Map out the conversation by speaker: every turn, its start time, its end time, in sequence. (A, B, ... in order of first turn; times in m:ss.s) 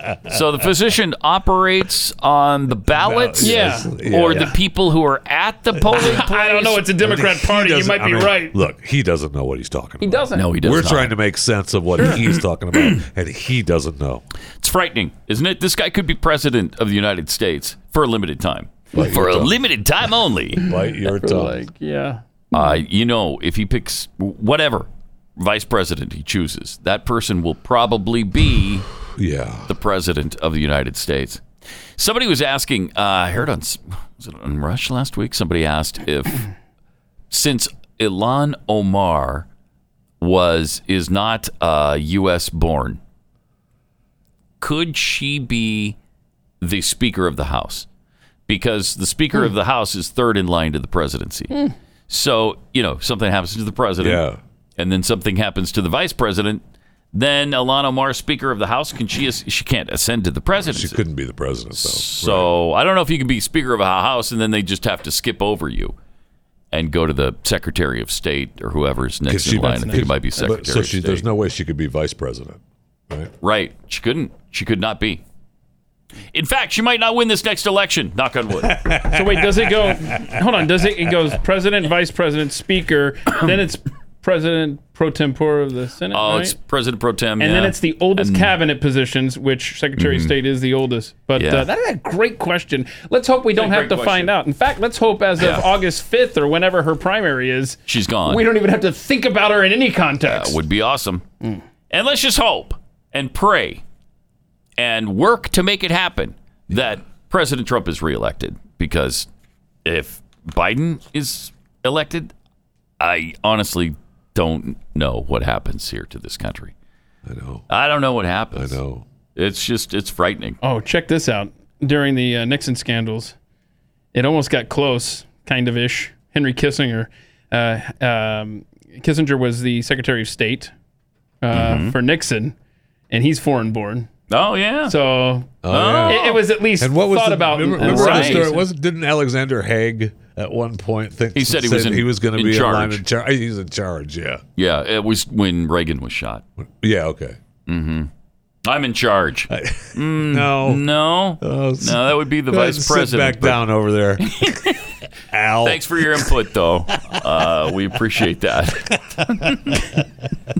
0:00.3-0:06.9 A
0:02.9-0:04.5 B
0:03.4-0:04.5 C
0:05.9-0:08.6 C
0:06.9-0:14.2 B
0:10.0-0:10.5 C
0:10.3-0:11.2 A
0:14.6-0:20.7 A
0:18.9-0:19.6 B
0:20.6-0:21.6 B
0:21.0-0:22.8 C
0:22.5-0:28.8 A
0:29.2-0:29.8 B
0:29.7-0:31.4 A
0:32.0-0:36.4 A
0:37.3-0:39.5 A
0:40.2-0:43.0 A
0:44.6-0:46.0 A
0:46.6-0:47.9 A
0:48.5-0:51.5 A
0:52.1-0:54.2 A
0:54.0-0:54.4 B
0:54.8-1:01.0 A
1:00.6-1:02.5 B
1:01.7-1:05.9 A
1:06.7-1:11.2 A
1:09.3-1:13.3 B
1:09.8-1:10.5 C
1:13.4-1:15.2 A
1:16.3-1:19.0 A
1:18.7-1:19.6 B
1:19.1-1:26.6 C
1:26.1-1:28.6 A
1:27.4-1:40.6 C
1:30.0-1:30.3 A
1:31.4-1:31.7 A
1:33.5-1:34.3 A
1:35.4-1:35.7 A
1:37.9-1:38.4 A
1:40.2-1:41.2 A
1:41.9-1:43.8 A
1:44.8-1:49.3 A
1:49.8-1:52.3 A
1:53.0-1:56.7 A
1:57.2-1:57.6 B
1:57.7-1:58.8 A
1:58.5-1:59.0 B
1:59.3-2:00.6 A
2:00.6-2:03.3 C
2:04.1-2:10.7 C
2:11.4-2:12.5 C
2:11.5-2:12.0 A
2:13.1-2:14.1 C
2:14.3-2:14.9 A
2:14.8-2:18.7 C
2:15.6-2:24.4 B
2:15.7-2:16.4 A
2:17.8-2:18.5 A
2:21.3-2:23.0 A
2:24.6-2:26.4 A
2:26.6-2:27.4 B
2:27.6-2:28.1 A
2:28.6-2:33.6 A
2:29.5-2:30.8 B
2:31.4-2:34.3 B
2:34.2-2:34.8 A
2:35.3-2:36.3 B
2:35.6-2:39.7 A